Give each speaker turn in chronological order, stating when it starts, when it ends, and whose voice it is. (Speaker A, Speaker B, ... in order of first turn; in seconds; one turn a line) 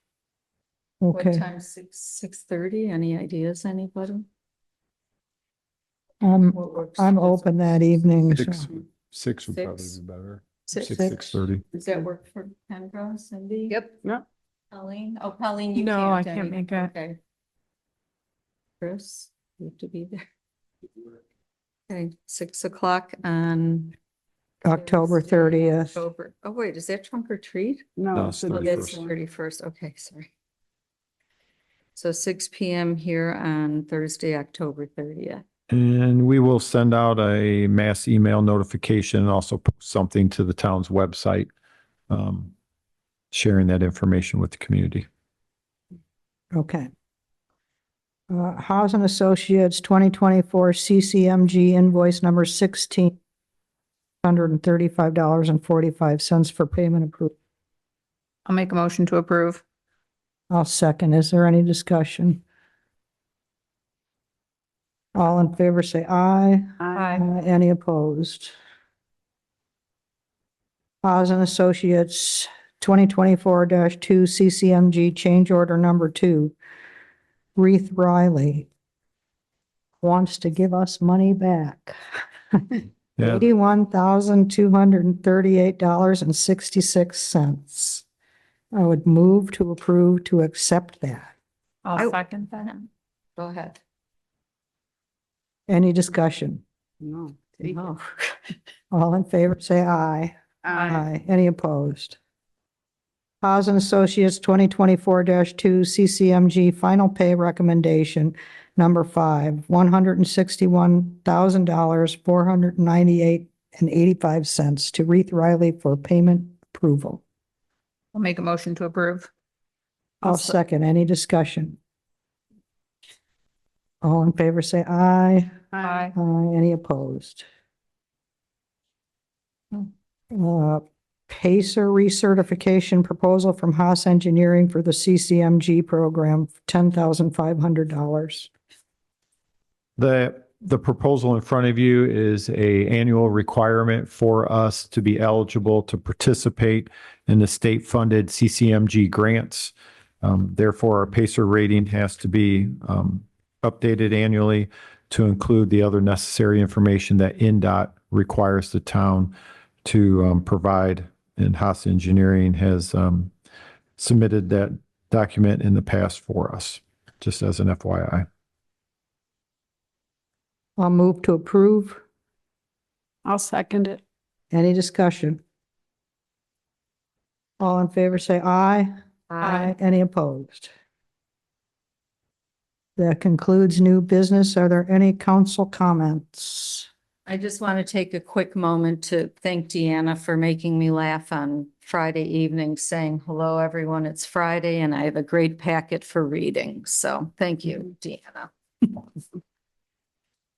Speaker A: 1.0-1.4
Speaker B: 1.1-4.3
Speaker A: 6.2-8.7
Speaker B: 6.5-8.1
Speaker C: 8.3-11.7
Speaker B: 9.5-10.0
Speaker B: 10.7-11.2
Speaker A: 10.8-11.4
Speaker B: 11.7-13.9
Speaker B: 14.7-17.2
Speaker D: 15.8-16.9
Speaker B: 18.8-20.2
Speaker B: 21.9-24.0
Speaker A: 24.6-26.0
Speaker B: 24.6-27.9
Speaker E: 28.0-29.1
Speaker C: 28.1-29.0
Speaker B: 28.5-30.3
Speaker B: 32.0-35.4
Speaker C: 35.7-41.5
Speaker C: 42.1-42.5
Speaker C: 43.3-45.1
Speaker A: 46.5-46.9
Speaker A: 48.3-53.2
Speaker A: 54.2-57.3
Speaker D: 58.5-59.6
Speaker A: 60.5-62.4
Speaker A: 65.2-68.5
Speaker E: 66.8-67.1
Speaker D: 67.0-67.3
Speaker A: 71.0-76.5
Speaker A: 77.6-78.7
Speaker A: 80.0-82.0
Speaker A: 82.5-88.0
Speaker C: 83.2-83.4
Speaker A: 88.7-91.3
Speaker D: 91.8-92.7
Speaker B: 92.0-93.8
Speaker A: 95.7-96.6
Speaker E: 97.0-97.8
Speaker B: 97.6-98.0
Speaker A: 98.9-102.2
Speaker E: 100.7-101.0
Speaker D: 100.7-101.0
Speaker A: 103.4-117.2
Speaker D: 118.1-119.3
Speaker A: 120.2-121.8
Speaker D: 120.2-120.5
Speaker A: 124.0-125.6
Speaker E: 125.7-126.1
Speaker D: 125.8-126.1
Speaker A: 126.2-127.5
Speaker A: 129.7-138.5
Speaker C: 140.0-163.3
Speaker C: 164.0-168.3
Speaker A: 170.8-172.0
Speaker E: 173.2-174.0
Speaker A: 174.5-175.4
Speaker A: 177.6-180.7
Speaker B: 179.3-179.7
Speaker A: 183.0-186.9
Speaker B: 187.3-199.0